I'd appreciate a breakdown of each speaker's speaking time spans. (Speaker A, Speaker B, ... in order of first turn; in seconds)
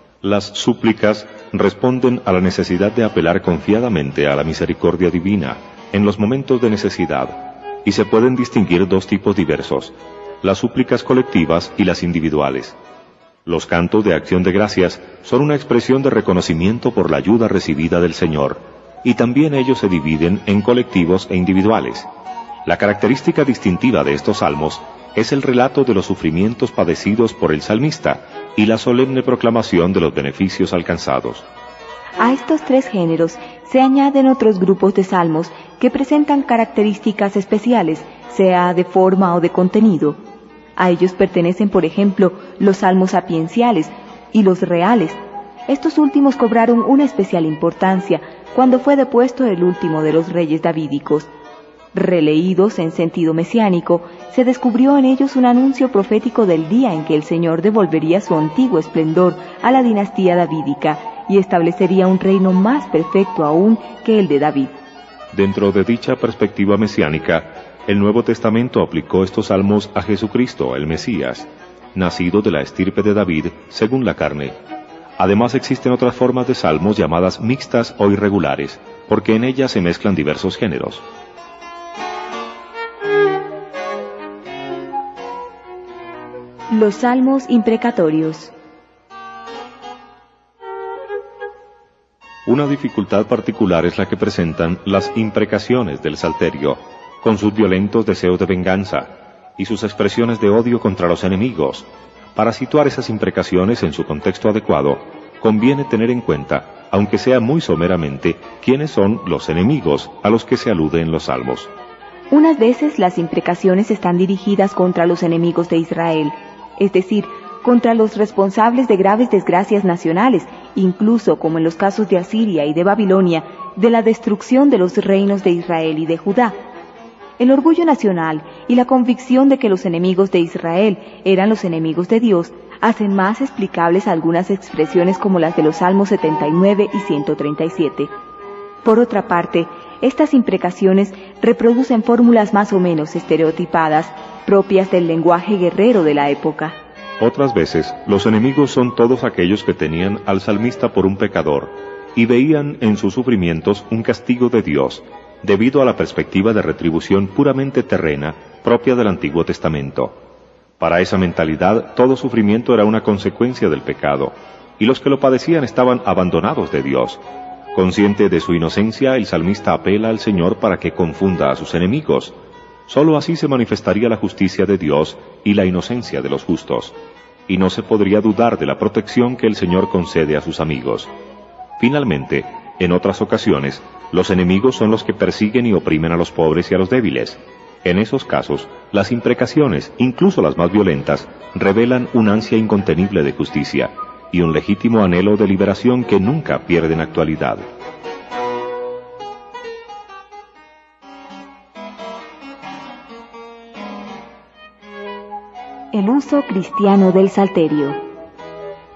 Speaker A: 0.2-12.8, 13.4-22.1, 22.6-31.4, 65.3-74.5, 75.2-81.0, 92.5-111.7, 147.2-160.1, 160.8-167.2, 167.7-172.3, 172.9-176.9, 177.5-181.1, 181.8-197.6
Speaker B: 32.2-40.2, 40.8-51.3, 51.9-64.7, 86.7-88.5, 112.3-126.6, 127.4-138.1, 138.8-146.7, 205.9-208.0